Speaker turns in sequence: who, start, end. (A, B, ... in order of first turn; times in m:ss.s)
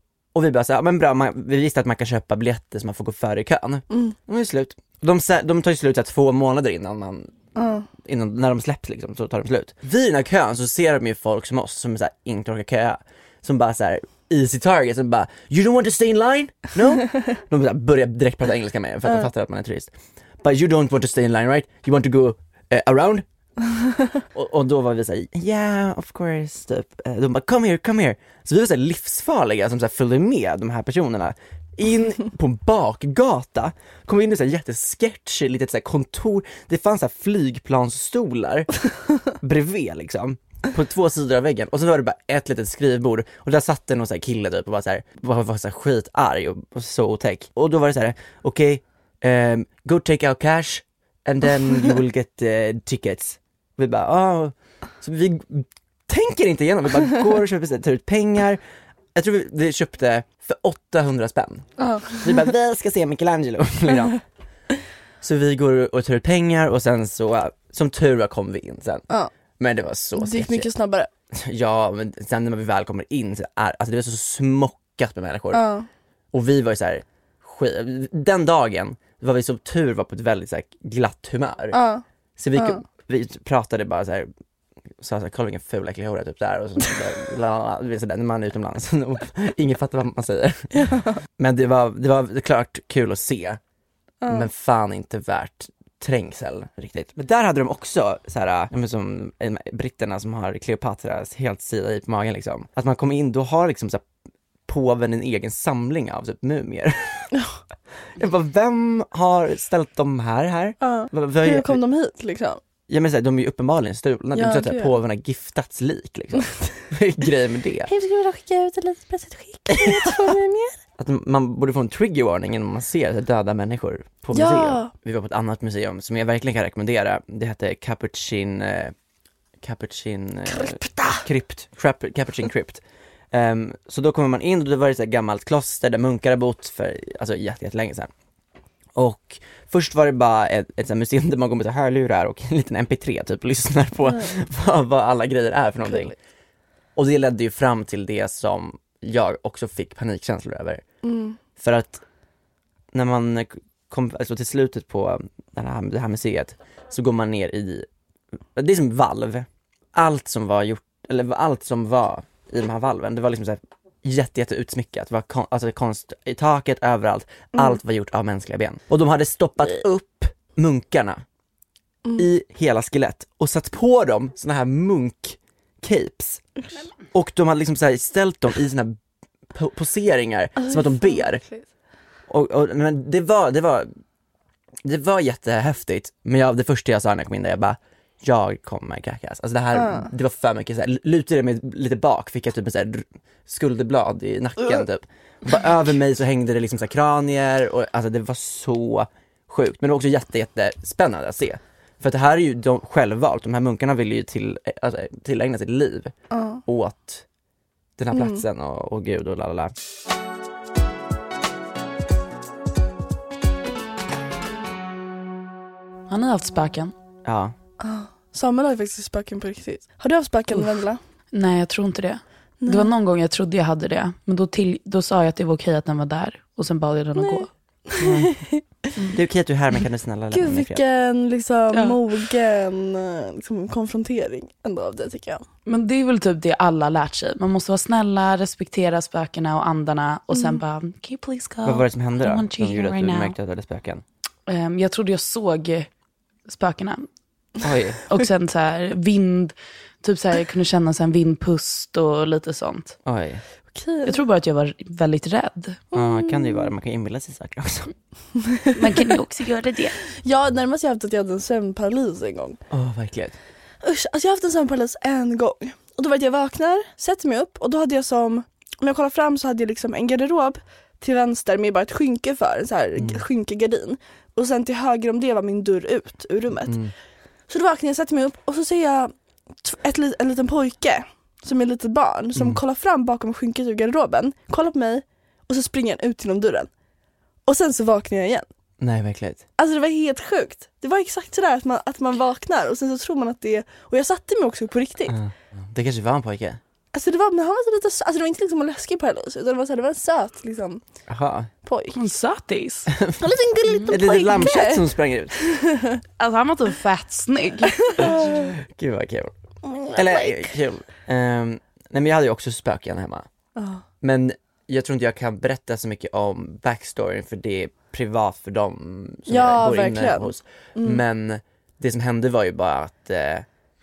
0:00.3-0:07.3 A
0:03.9-0:04.2 B
0:07.6-0:07.9 B
0:07.9-0:19.9 A
0:20.4-0:23.2 A
0:24.3-0:38.7 A
0:39.2-0:58.6 A
0:59.1-1:04.2 A
1:01.8-1:02.3 B
1:05.2-1:09.0 A
1:09.6-1:10.7 A
1:10.2-1:11.1 B
1:11.3-1:15.6 A
1:15.5-1:15.9 B
1:16.3-1:21.8 A
1:21.7-1:22.8 B
1:22.4-1:24.3 A
1:25.0-1:30.8 A
1:30.7-1:31.2 B
1:31.4-1:33.6 A
1:34.2-1:34.5 B
1:34.3-1:44.0 A
1:44.7-1:47.3 A
1:48.2-1:51.8 A
1:50.8-1:52.6 B
1:52.9-1:57.9 A
1:54.3-1:54.9 B
1:57.9-2:00.8 B
1:59.8-2:00.3 A
2:01.0-2:08.9 A
2:04.3-2:04.9 B
2:09.6-2:12.8 A
2:10.5-2:11.2 B
2:13.3-2:18.1 A
2:18.9-2:26.1 A
2:24.0-2:24.3 B
2:25.8-2:26.1 B
2:27.0-2:30.8 A
2:31.0-2:31.4 B
2:31.6-2:32.0 A
2:32.9-2:37.9 A
2:38.5-2:51.2 A
2:47.5-2:47.8 B
2:52.2-2:56.4 A
2:57.1-2:59.0 A
2:59.5-3:01.4 A
3:00.6-3:01.6 B
3:02.3-3:03.9 A
3:04.8-3:26.1 A
3:09.7-3:10.1 B
3:26.3-3:26.6 B
3:26.6-3:27.2 A
3:28.0-3:29.7 A
3:28.1-3:28.4 B
3:36.1-3:36.9 C
3:37.2-3:37.5 A
3:37.8-3:41.0 B
3:41.3-3:47.5 C
3:42.6-3:42.9 B
3:47.2-3:48.6 B
3:48.0-3:48.4 A
3:49.1-3:50.8 A
3:50.3-3:55.5 B
3:55.6-4:03.4 C
4:01.6-4:04.0 A
4:04.5-4:05.9 C
4:06.5-4:07.1 C
4:07.6-4:08.0 A
4:08.1-4:13.0 C
4:13.0-4:13.4 A
4:13.7-4:14.1 B
4:14.0-4:15.8 C
4:15.9-4:16.7 B
4:15.9-4:17.9 A
4:18.5-4:18.8 B
4:18.8-4:20.0 C
4:20.1-4:22.6 B
4:22.7-4:23.4 A
4:23.8-4:36.8 B
4:33.0-4:33.2 A
4:36.6-4:36.9 A
4:37.5-4:46.7 B
4:47.4-4:48.4 B
4:48.8-4:49.4 A
4:49.6-4:55.2 B
4:55.1-4:56.6 A
4:56.9-5:00.8 B
5:01.1-5:01.5 A
5:01.6-5:02.0 B
5:01.9-5:02.9 C
5:02.9-5:03.2 A
5:03.2-5:06.0 B
5:03.9-5:05.4 A
5:06.2-5:07.9 C
5:08.0-5:09.3 A
5:09.6-5:10.5 B
5:09.9-5:13.3 A
5:13.6-5:13.8 B
5:14.0-5:23.5 A
5:19.3-5:21.0 B